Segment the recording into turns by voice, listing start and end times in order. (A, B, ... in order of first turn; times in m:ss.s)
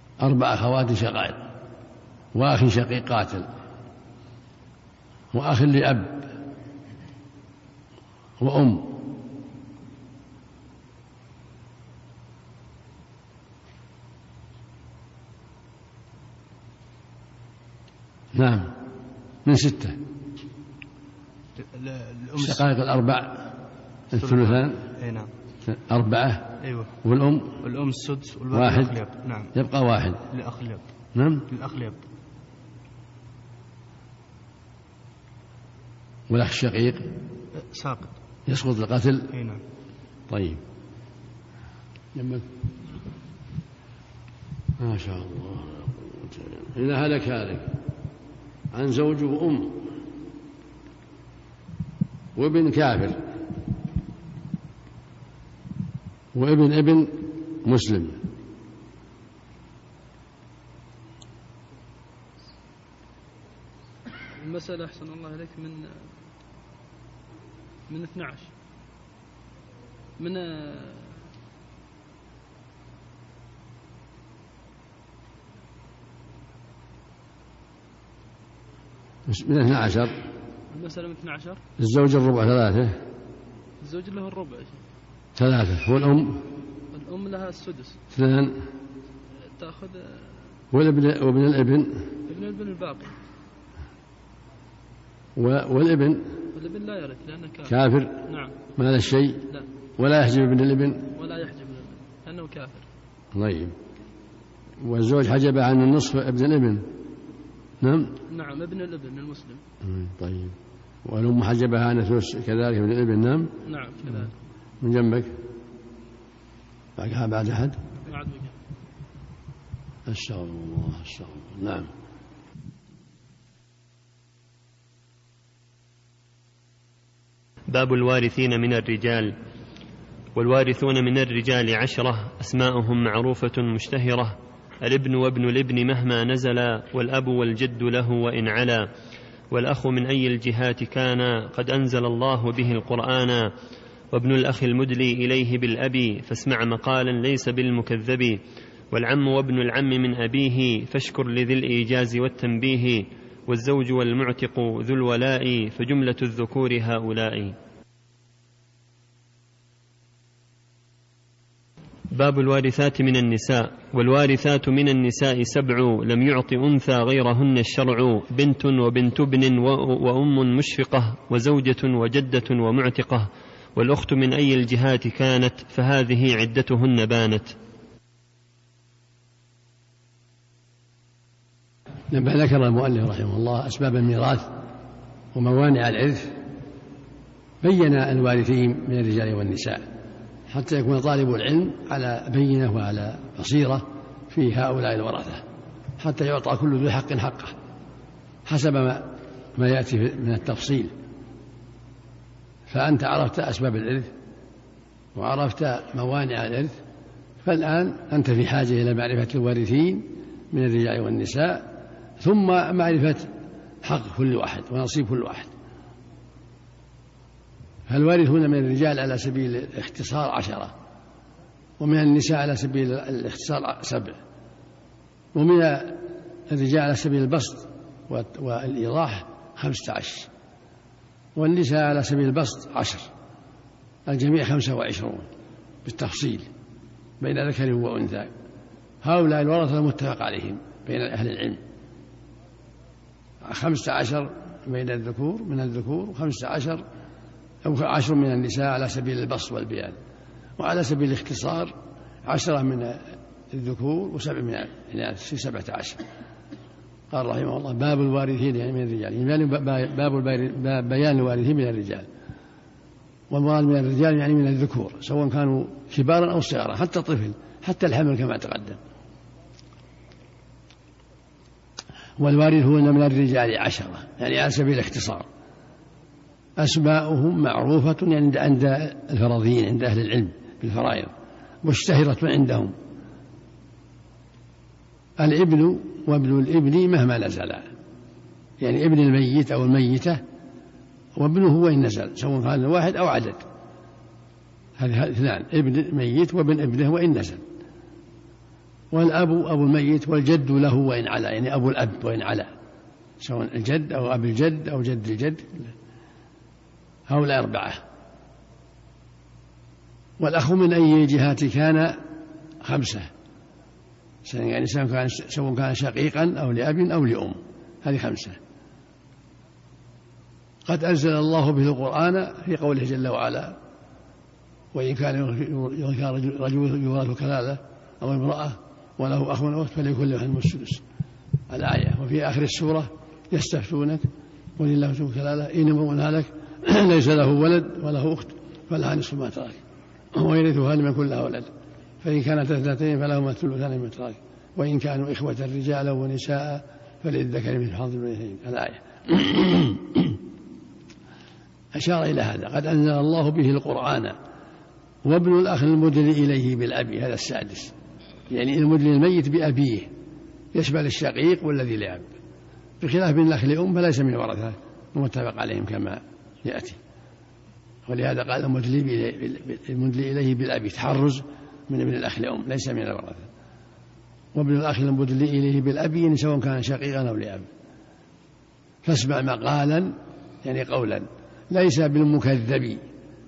0:00.2-0:01.5 A
0:02.3-0:03.5 A
0:05.3-0:06.3 A
0:08.4-0:09.0 A
0:18.3-0:18.8 A
0:19.4-0:20.0 A
0:21.6-0:22.7 B
0:22.4-0:23.6 A
0:24.1-0:24.8 A
0:24.1-0:25.3 B
0:25.6-0:27.6 A
0:26.6-0:26.9 B
0:27.6-0:29.5 B
0:28.5-0:29.0 A
0:29.5-0:30.2 A
0:30.3-0:30.8 B
0:31.2-0:31.5 A
0:31.5-0:32.0 B
0:36.3-0:37.1 A
0:37.6-0:38.1 B
0:38.5-0:39.3 A
0:39.3-0:39.6 B
0:40.3-0:40.6 A
0:42.2-0:42.4 A
0:44.8-0:47.8 A
0:48.7-0:49.9 A
0:52.4-0:53.2 A
0:56.3-0:58.2 A
1:04.4-1:06.1 C
1:07.9-1:08.5 C
1:10.2-1:11.2 C
1:19.3-1:20.1 A
1:20.7-1:21.6 C
1:21.8-1:23.0 A
1:23.8-1:24.8 C
1:25.4-1:26.4 A
1:26.9-1:28.0 C
1:28.1-1:28.6 A
1:29.6-1:30.5 C
1:30.7-1:32.1 A
1:32.3-1:33.1 C
1:35.4-1:36.4 A
1:36.5-1:37.8 C
1:37.7-1:38.2 A
1:38.3-1:38.6 C
1:38.8-1:39.5 A
1:40.0-1:41.1 A
1:41.2-1:42.9 C
1:43.3-1:43.8 A
1:44.8-1:46.9 A
1:47.8-1:48.2 A
1:48.3-1:49.6 C
1:49.8-1:53.5 A
1:53.6-1:54.3 C
1:54.8-1:55.4 A
1:57.0-1:57.8 A
1:58.0-1:58.6 C
2:00.1-2:01.9 A
2:07.7-2:09.4 D
2:10.4-2:18.9 D
2:19.5-2:23.5 D
2:24.1-2:37.6 D
2:42.1-2:57.6 D
3:02.1-3:04.5 A
3:05.3-3:06.4 A
3:07.6-3:09.9 A
3:10.5-3:15.4 A
3:16.0-3:17.5 A
3:18.5-3:20.9 A
3:22.7-3:24.1 A
3:25.2-3:26.8 A
3:27.4-3:33.3 A
3:33.8-3:35.5 A
3:37.9-3:40.7 A
3:41.8-3:44.2 A
3:45.3-3:50.3 A
3:51.4-3:53.1 A
3:54.1-3:55.3 A
3:55.8-3:56.5 A
3:57.2-3:58.3 A
3:59.0-4:01.6 A
4:03.4-4:06.8 A
4:07.6-4:10.0 A
4:10.6-4:16.0 A
4:17.1-4:22.1 A
4:23.3-4:28.8 A
4:32.2-4:35.3 A
4:36.6-4:41.1 A
4:41.6-4:42.8 A
4:45.2-4:47.7 A
4:48.6-4:50.2 A
4:51.2-4:53.4 A
4:54.8-4:57.4 A
4:58.9-5:02.5 A
5:03.2-5:05.7 A
5:07.1-5:07.8 A
5:10.2-5:12.0 A
5:12.6-5:13.1 A
5:14.2-5:18.4 A
5:20.7-5:23.6 A
5:24.7-5:30.8 A
5:31.5-5:34.1 A
5:34.6-5:39.6 A
5:40.1-5:50.2 A
5:51.8-5:54.2 A
5:55.0-5:57.7 A
5:58.3-5:59.9 A
6:00.5-6:02.1 A
6:02.8-6:06.8 A
6:07.9-6:13.3 A
6:14.4-6:17.5 A
6:18.8-6:22.8 A